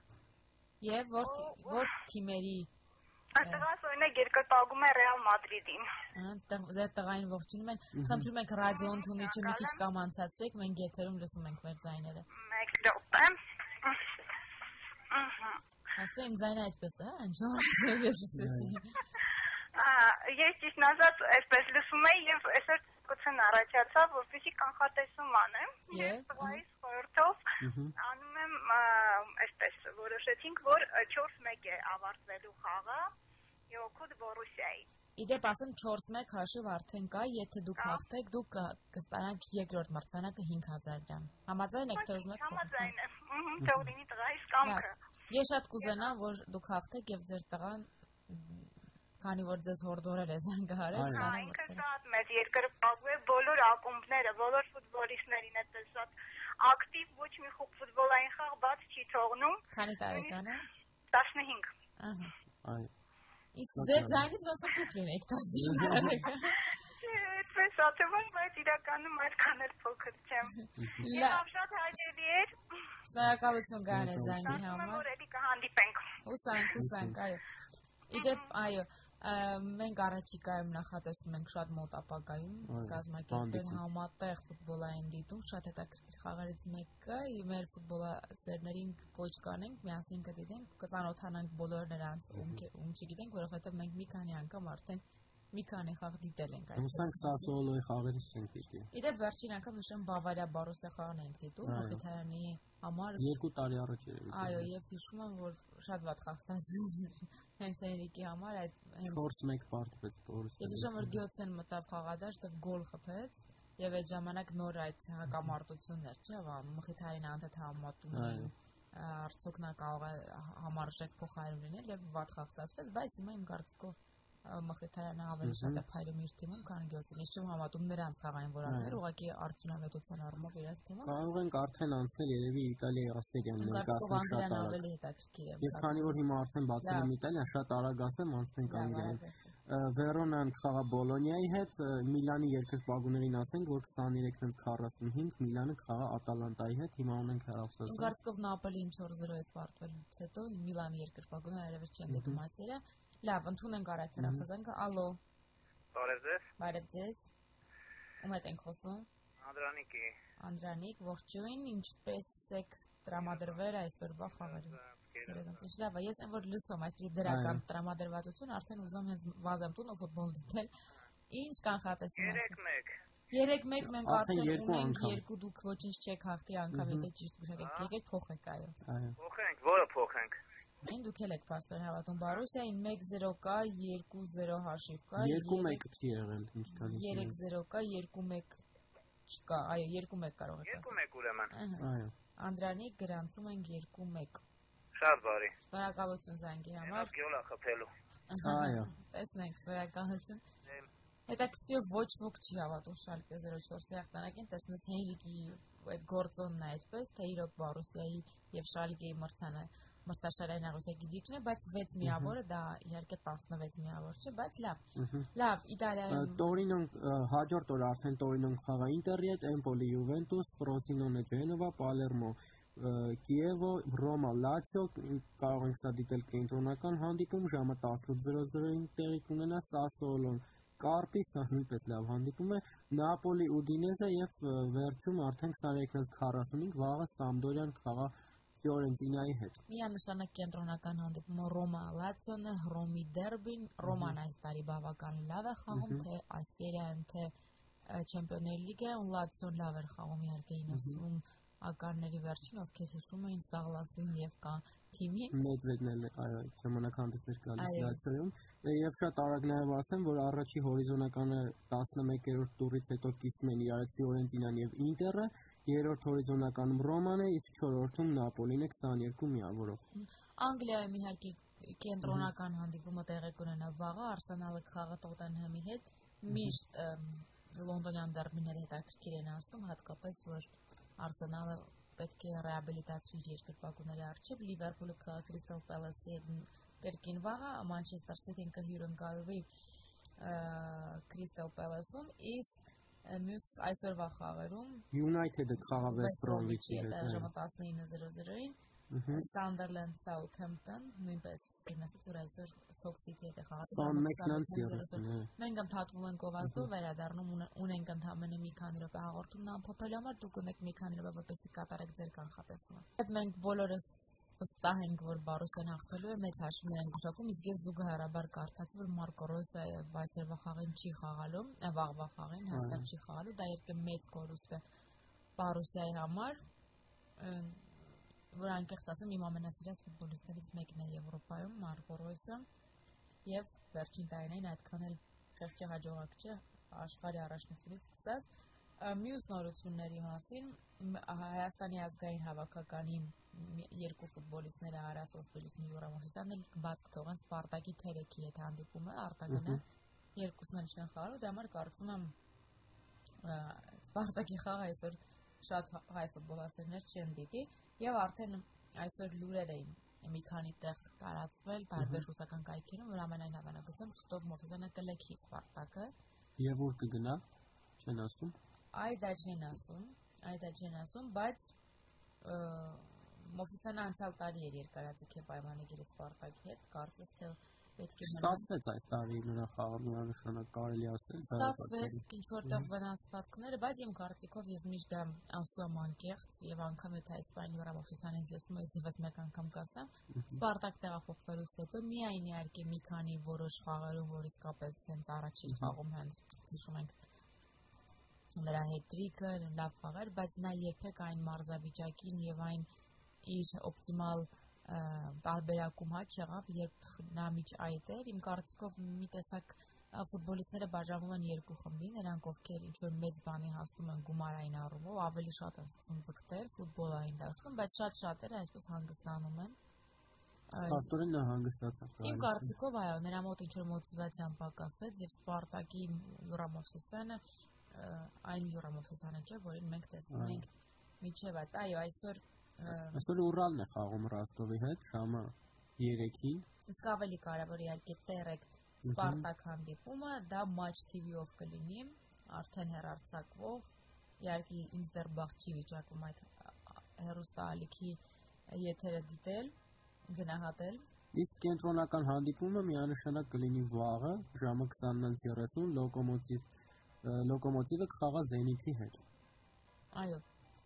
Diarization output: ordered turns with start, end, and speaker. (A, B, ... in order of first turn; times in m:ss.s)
0:00.8-0:02.7 A
0:01.2-0:01.9 B
0:03.4-0:05.9 B
0:03.4-0:03.7 A
0:06.1-0:12.2 A
0:07.9-0:08.3 C
0:08.6-0:09.8 B
0:12.3-0:14.0 B
0:15.1-0:15.6 B
0:16.0-0:19.0 A
0:18.4-0:18.8 C
0:19.8-0:27.4 B
0:25.9-0:26.6 A
0:27.6-0:27.9 C
0:28.0-0:33.1 B
0:33.7-0:34.9 B
0:35.2-0:42.9 A
0:37.8-0:38.0 B
0:41.9-0:44.9 B
0:43.6-0:43.9 C
0:44.6-0:51.8 A
0:45.8-0:46.2 B
0:50.9-0:51.3 C
0:51.0-1:00.6 B
0:59.7-1:00.6 A
1:01.1-1:01.7 B
1:02.0-1:02.3 A
1:02.6-1:02.9 C
1:03.5-1:06.6 A
1:03.7-1:04.3 C
1:05.6-1:06.2 C
1:07.0-1:12.5 B
1:10.5-1:11.4 A
1:10.8-1:11.0 C
1:13.0-1:15.0 A
1:13.9-1:14.6 C
1:14.4-1:16.0 B
1:16.2-1:17.4 A
1:16.7-1:17.2 C
1:18.1-1:37.5 A
1:18.1-1:18.5 B
1:22.7-1:23.8 C
1:32.3-1:32.6 C
1:36.8-1:38.9 C
1:38.9-1:43.3 A
1:41.6-1:42.0 C
1:43.2-1:44.7 C
1:44.3-1:49.2 A
1:49.0-1:51.2 C
1:50.6-2:11.2 A
1:58.1-1:58.5 C
2:05.4-2:05.8 C
2:08.6-2:09.0 C
2:11.0-2:14.8 C
2:13.6-2:16.2 A
2:15.6-2:28.2 C
2:16.8-2:17.1 A
2:18.7-2:19.5 A
2:27.8-2:35.2 A
2:32.1-2:32.4 C
2:34.2-2:34.4 C
2:35.9-2:36.4 D
2:36.6-2:37.3 A
2:38.2-2:39.1 A
2:39.4-2:40.1 D
2:40.4-2:50.7 A
2:44.7-2:45.6 D
2:47.2-2:47.6 C
2:51.3-2:52.6 A
2:52.2-2:52.9 D
2:53.3-2:58.8 A
2:53.8-2:55.2 C
2:56.7-2:57.1 C
2:57.6-2:57.9 D
2:58.8-2:59.2 C
2:59.2-3:00.3 D
3:00.8-3:05.8 A
3:05.2-3:07.4 C
3:06.7-3:08.6 A
3:09.3-3:10.9 A
3:10.6-3:11.5 D
3:11.5-3:11.8 A
3:11.8-3:12.1 C
3:12.4-3:14.4 A
3:15.0-3:15.5 D
3:15.7-3:17.1 A
3:16.8-3:17.9 D
3:18.3-3:20.4 A
3:18.4-3:18.9 C
3:21.3-3:34.8 A
3:32.0-3:32.3 C
3:35.0-3:35.3 C
3:35.3-3:36.4 A
3:36.1-3:59.6 C
3:59.7-4:07.3 A
4:03.8-4:04.1 C
4:05.7-4:06.0 C
4:07.9-4:15.4 A
4:10.7-4:11.0 C
4:15.3-4:29.8 C
4:17.6-4:18.0 A
4:29.9-4:49.4 A
4:36.3-4:36.6 C
4:50.2-4:54.8 A
4:54.9-4:57.3 C
4:55.7-4:58.6 A
4:58.9-4:59.3 C
4:59.1-5:24.6 A
5:03.6-5:05.3 C
5:06.4-5:06.7 C
5:22.5-5:22.9 C
5:25.4-5:26.4 A
5:27.2-5:32.4 A
5:33.2-5:38.2 A
5:38.8-5:49.6 A
5:49.3-5:49.6 C
5:50.2-5:52.1 A
5:53.2-6:05.9 A
6:01.8-6:02.0 C
6:06.4-6:07.2 C
6:07.8-6:08.4 C
6:08.7-6:11.5 A
6:12.2-6:18.5 A
6:18.0-6:22.7 C
6:21.3-6:36.9 A
6:30.1-6:30.4 C
6:35.5-6:35.7 C
6:38.4-6:42.7 A
6:43.2-6:59.6 A
7:00.5-7:00.9 A
7:00.6-7:02.5 C
7:02.0-7:10.5 A
7:10.1-7:10.4 C
7:11.0-7:13.0 A
7:12.7-7:16.4 C
7:16.7-7:23.6 A
7:18.8-7:19.2 C
7:24.2-7:28.0 A
7:28.5-7:29.5 A
7:30.1-7:30.8 A
7:31.1-7:36.5 C
7:37.0-7:39.0 C
7:39.9-7:40.2 A